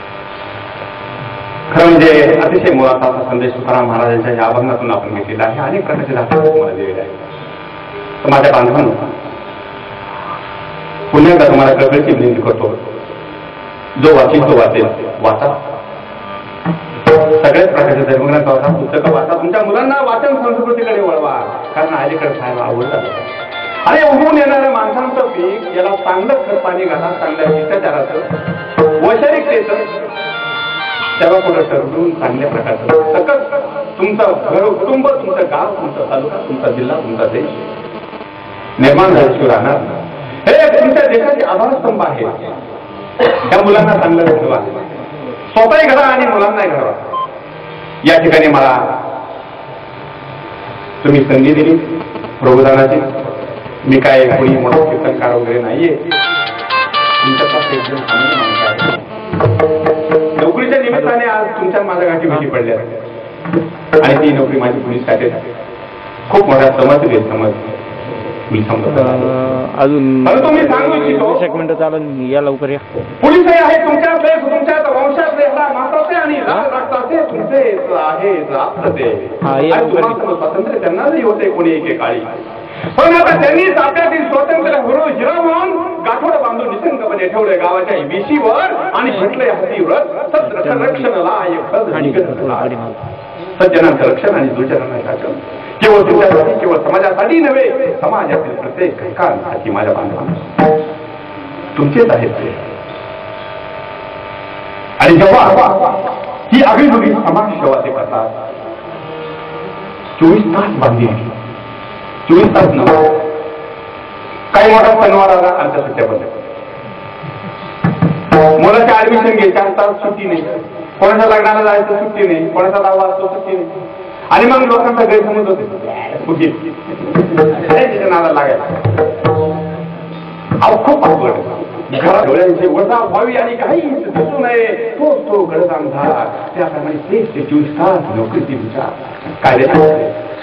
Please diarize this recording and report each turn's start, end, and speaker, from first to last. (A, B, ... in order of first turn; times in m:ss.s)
0:01.7-0:07.1 A
0:08.2-0:09.1 A
0:11.1-0:12.8 A
0:14.0-0:15.6 A
0:17.3-0:23.3 A
0:23.8-0:28.2 A
0:29.0-0:29.8 A
0:31.2-0:37.6 A
0:38.8-0:42.4 A
0:43.3-0:44.8 A
0:45.5-0:47.1 A
0:48.0-0:48.8 A
0:51.0-0:51.8 A
0:52.4-0:53.2 A
0:53.8-0:56.0 A
0:57.2-0:59.0 A
1:00.4-1:03.0 A
1:04.0-1:05.4 A
1:06.3-1:07.8 A
1:08.5-1:09.6 A
1:08.9-1:12.8 B
1:10.2-1:11.4 A
1:13.2-1:22.3 A
1:19.4-1:20.2 B
1:22.9-1:32.8 A
1:30.5-1:31.1 B
1:32.0-1:33.0 B
1:33.6-1:40.5 A
1:41.8-1:42.7 A
1:45.0-1:46.0 A
1:46.5-1:48.3 A
1:50.2-1:51.3 A
1:52.3-1:53.2 A
1:54.5-1:56.3 A
1:58.4-2:03.7 A
2:04.3-2:08.9 A
2:10.6-2:20.1 A